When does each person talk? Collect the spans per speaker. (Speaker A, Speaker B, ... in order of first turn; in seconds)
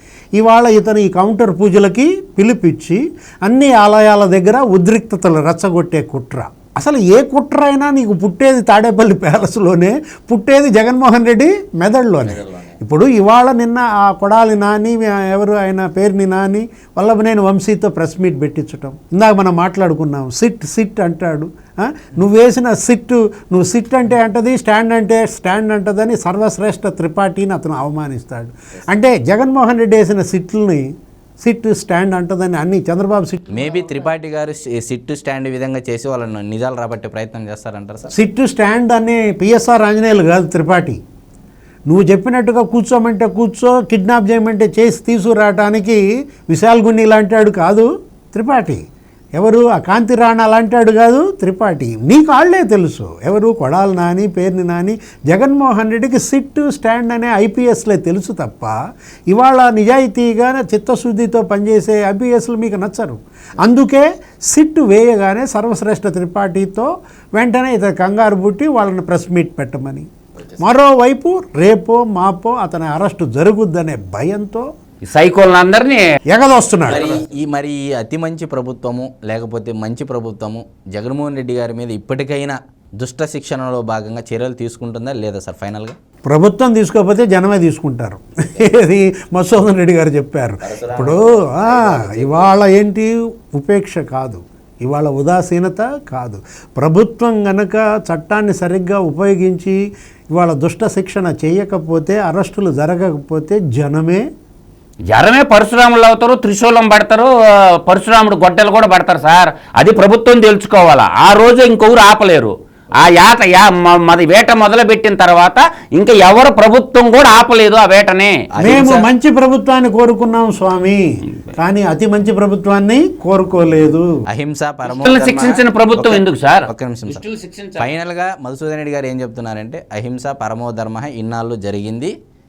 Speaker A: 0.3-30.9, 31.4-33.9, 38.1-41.0, 41.9-48.8, 49.3-58.7, 59.3-70.0, 70.6-74.7, 76.3-77.2, 86.2-99.8, 100.3-104.2, 118.6-121.0, 121.5-124.1
Speaker B: 12.3-12.8, 33.5-38.1, 76.9-86.0, 90.6-92.5, 118.5-119.1, 124.3-127.2, 127.8-132.1
Speaker C: 75.1-76.0, 105.1-107.3, 107.8-118.3, 124.8-127.9